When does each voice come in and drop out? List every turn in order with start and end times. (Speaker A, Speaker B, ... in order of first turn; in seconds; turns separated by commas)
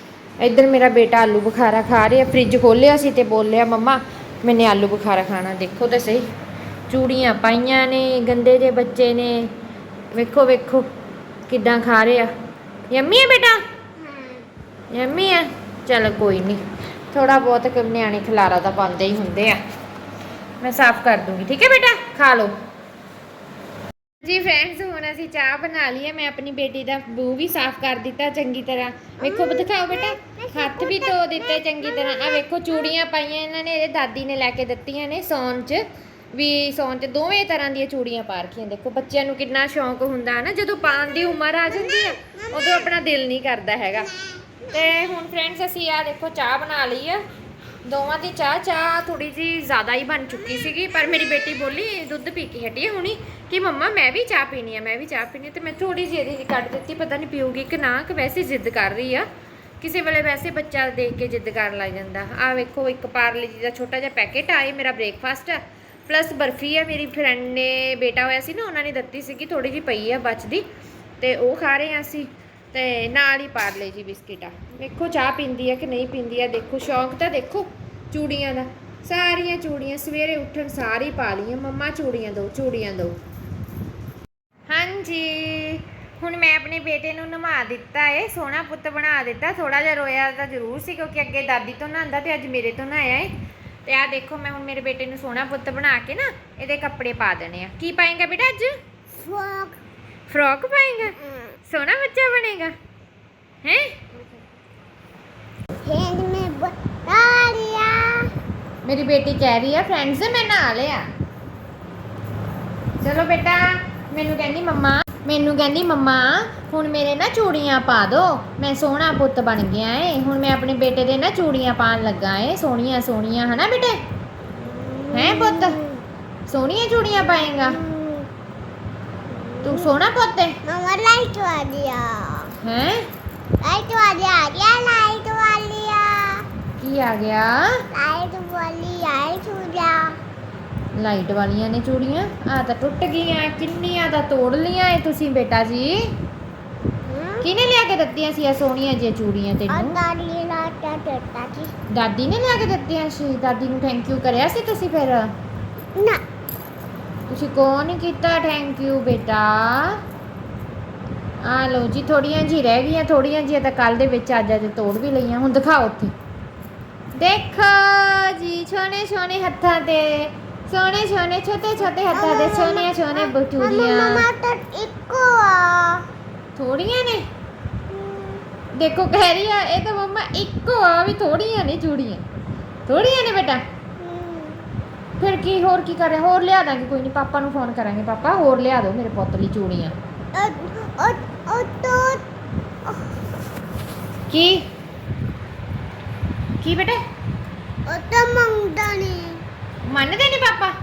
Speaker A: 0.4-6.2, Speaker A: 6.9-9.5, Speaker A: 10.1-10.9, Speaker A: 11.5-12.3, Speaker A: 12.9-13.6, Speaker B: 14.0-14.4, Speaker A: 14.9-16.6, Speaker A: 17.1-19.6, Speaker A: 20.6-22.5, Speaker A: 24.2-44.1, Speaker B: 29.2-32.7, Speaker B: 41.7-42.9, Speaker B: 44.0-44.8, Speaker A: 44.7-47.2, Speaker A: 47.8-59.2, Speaker B: 50.5-51.1, Speaker A: 59.8-70.6, Speaker A: 71.2-83.2, Speaker A: 84.7-93.3, Speaker A: 93.8-98.7, Speaker B: 99.1-99.8, Speaker A: 100.3-102.7, Speaker B: 101.2-101.5, Speaker A: 103.6-104.0, Speaker B: 105.8-108.3, Speaker A: 108.8-111.1, Speaker A: 113.0-124.0, Speaker B: 124.5-126.0, Speaker A: 125.1-125.8, Speaker A: 126.5-127.8, Speaker B: 127.3-128.3, Speaker B: 129.3-129.9, Speaker A: 129.6-130.6, Speaker B: 130.6-132.5, Speaker A: 132.6-133.0, Speaker B: 133.6-136.4, Speaker A: 136.8-137.6, Speaker B: 137.9-140.2, Speaker A: 140.9-146.0, Speaker B: 147.0-147.4, Speaker A: 147.4-150.0, Speaker B: 149.7-151.7, Speaker A: 151.9-155.3, Speaker B: 155.9-156.2, Speaker A: 157.3-160.0, Speaker A: 161.4-166.1, Speaker A: 167.1-174.2, Speaker B: 172.1-176.0, Speaker A: 176.6-177.3, Speaker B: 177.9-178.4, Speaker A: 178.7-182.2, Speaker A: 182.9-183.6, Speaker B: 184.0-184.6, Speaker A: 185.2-189.9, Speaker B: 190.3-192.2, Speaker B: 192.8-193.1, Speaker A: 194.3-194.6, Speaker A: 196.6-197.0, Speaker B: 197.9-199.4, Speaker A: 199.9-200.7